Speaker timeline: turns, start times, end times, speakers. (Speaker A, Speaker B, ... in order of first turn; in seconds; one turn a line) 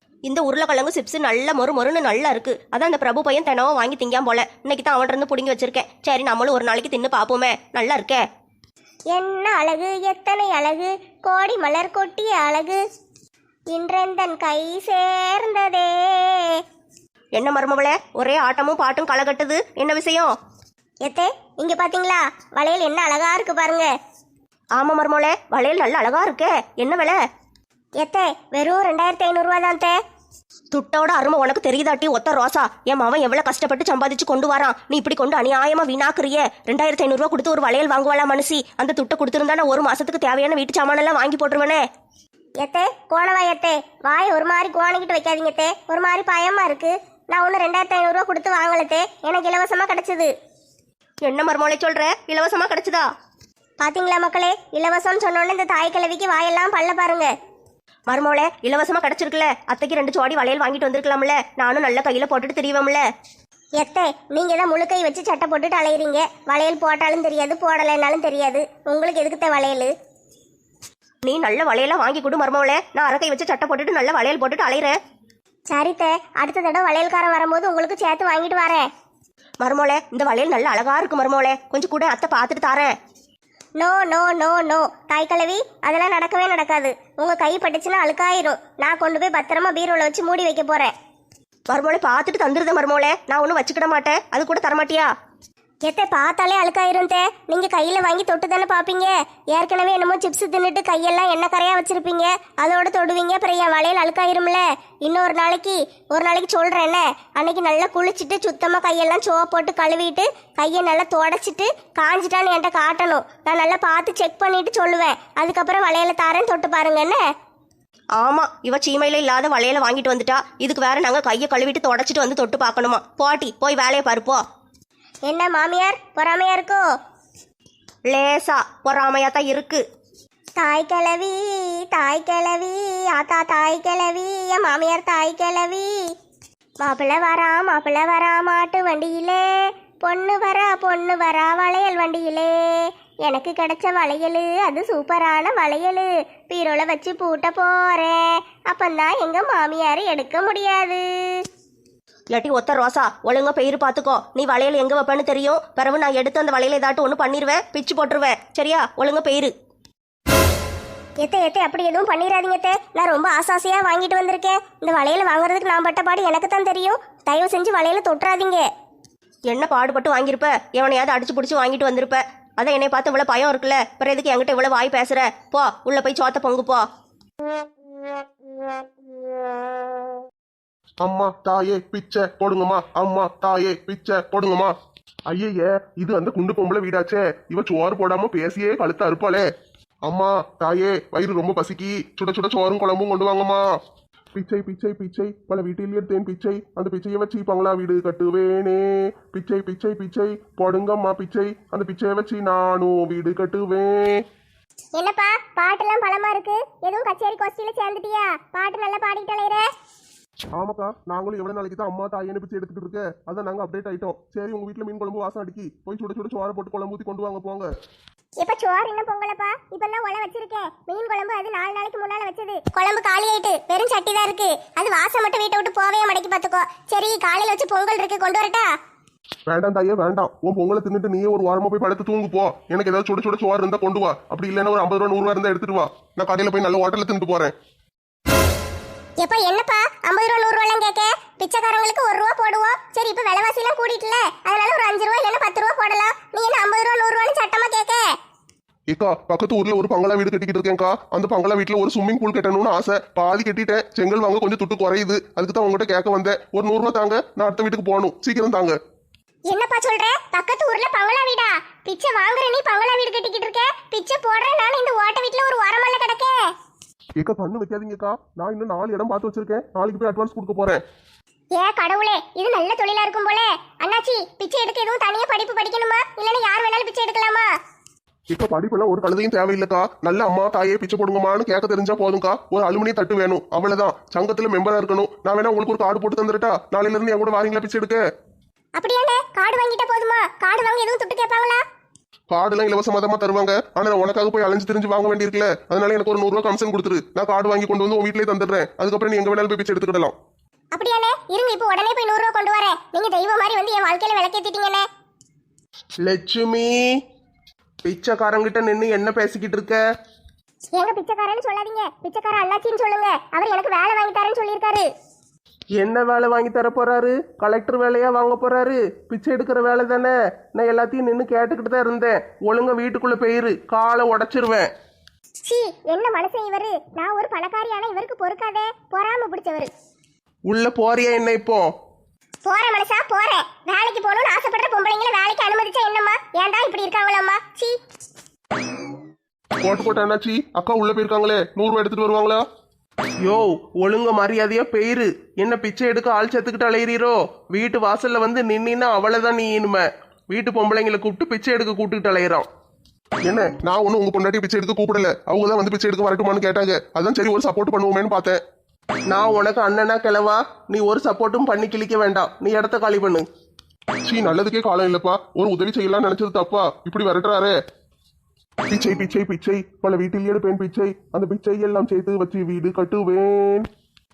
Speaker A: 0.2-8.2
Speaker B: 9.1-12.8
Speaker B: 13.7-16.6
Speaker A: 17.3-20.3
Speaker B: 21.0-23.9
Speaker A: 24.8-27.2
Speaker B: 28.0-29.9
Speaker A: 30.7-41.8
Speaker B: 42.6-50.3
Speaker A: 51.2-53.1
Speaker B: 53.8-57.3
Speaker A: 58.1-63.0
Speaker B: 63.8-69.9
Speaker A: 71.2-75.0
Speaker B: 75.7-78.8
Speaker A: 79.6-82.9
Speaker B: 83.8-90.9
Speaker A: 91.7-95.1
Speaker B: 95.8-117.2
Speaker A: 118.2-124.4
Speaker B: 125.2-126.8
Speaker A: 128.1-129.8
Speaker B: 130.6-135.9
Speaker B: 136.8-151.4
Speaker A: 152.3-159.5
Speaker B: 161.2-168.7
Speaker A: 169.5-176.8
Speaker C: 181.0-184.7
Speaker C: 185.3-189.4
Speaker C: 190.0-193.6
Speaker C: 194.3-204.2
Speaker B: 204.9-209.7
Speaker C: 210.5-217.7
Speaker B: 218.4-228.7
Speaker C: 229.5-237.5
Speaker B: 239.2-248.1
Speaker C: 248.9-258.8
Speaker B: 259.5-266.5
Speaker C: 267.2-270.8
Speaker B: 271.5-277.5
Speaker C: 278.3-288.0
Speaker B: 288.8-291.6
Speaker C: 292.3-300.1
Speaker B: 300.7-304.9
Speaker C: 306.0-306.8
Speaker C: 307.8-309.8
Speaker B: 310.7-314.9
Speaker C: 315.8-324.7
Speaker B: 325.4-329.7
Speaker C: 330.5-331.7
Speaker B: 332.4-337.7
Speaker C: 339.6-342.4
Speaker C: 343.2-352.5
Speaker C: 353.2-358.4
Speaker C: 359.1-363.2
Speaker C: 364.0-367.6
Speaker C: 368.7-373.7